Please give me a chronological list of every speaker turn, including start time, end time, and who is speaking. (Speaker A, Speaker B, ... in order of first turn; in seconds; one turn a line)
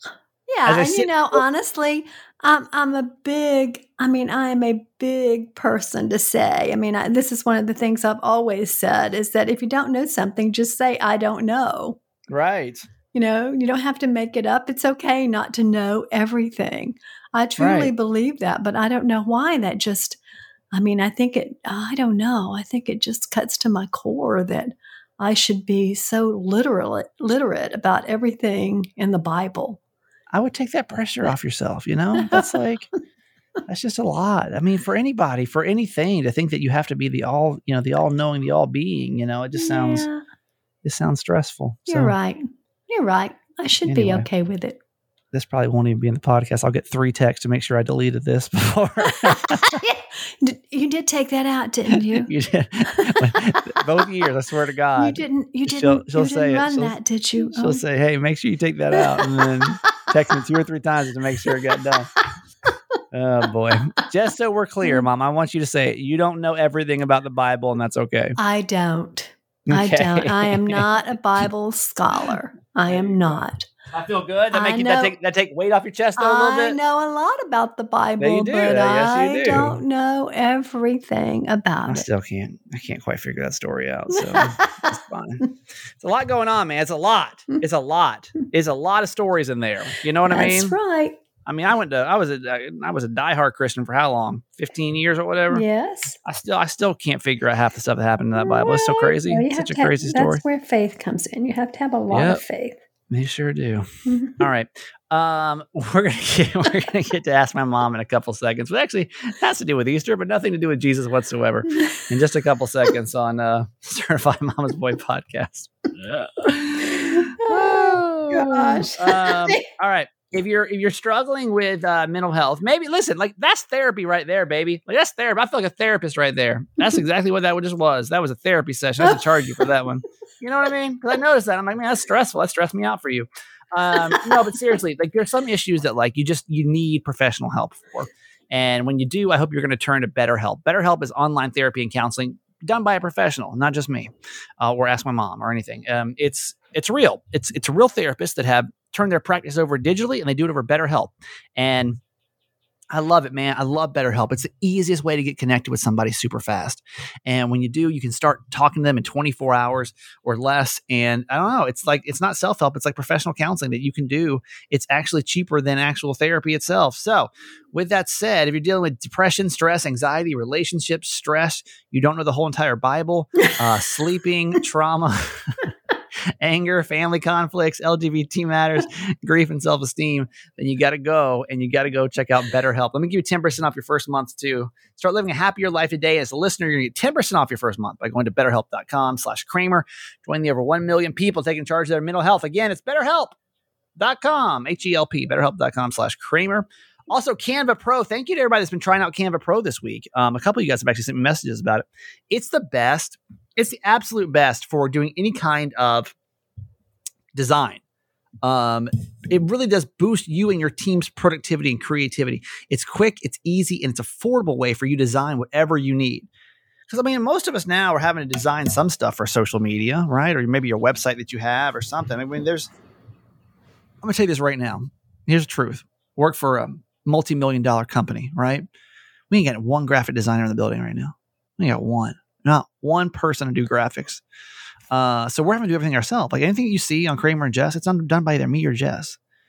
Speaker A: 0.5-12.0
Speaker B: 0.7-1.4
Speaker B: 12.3-12.9
Speaker A: 13.1-20.2
Speaker B: 17.6-17.9
Speaker A: 20.7-29.8
Speaker B: 30.3-32.9
Speaker A: 32.2-32.6
Speaker B: 33.7-40.1
Speaker A: 39.5-40.2
Speaker B: 40.8-42.2
Speaker A: 41.9-44.8
Speaker B: 43.9-44.3
Speaker B: 45.3-49.8
Speaker A: 49.2-52.3
Speaker B: 51.9-62.1
Speaker A: 53.0-53.3
Speaker A: 55.0-57.8
Speaker A: 58.9-59.8
Speaker B: 63.1-68.4
Speaker A: 68.4-73.7
Speaker B: 69.7-70.9
Speaker B: 72.9-76.8
Speaker A: 74.5-75.2
Speaker A: 76.2-82.1
Speaker B: 78.2-79.8
Speaker B: 81.9-85.5
Speaker A: 84.1-84.9
Speaker B: 86.0-90.8
Speaker A: 90.3-91.2
Speaker B: 91.5-95.7
Speaker A: 95.5-96.2
Speaker B: 96.2-100.4
Speaker A: 98.3-102.8
Speaker B: 102.1-102.4
Speaker B: 103.1-103.9
Speaker A: 104.1-104.5
Speaker B: 104.4-152.0
Speaker A: 111.7-112.0
Speaker A: 117.2-119.7
Speaker A: 134.1-134.4
Speaker B: 152.9-175.7
Speaker B: 176.4-193.4
Speaker B: 194.0-206.1
Speaker B: 207.3-207.8
Speaker B: 208.4-216.3
Speaker B: 216.9-222.7
Speaker B: 224.0-228.7
Speaker B: 229.3-234.2
Speaker B: 234.9-239.2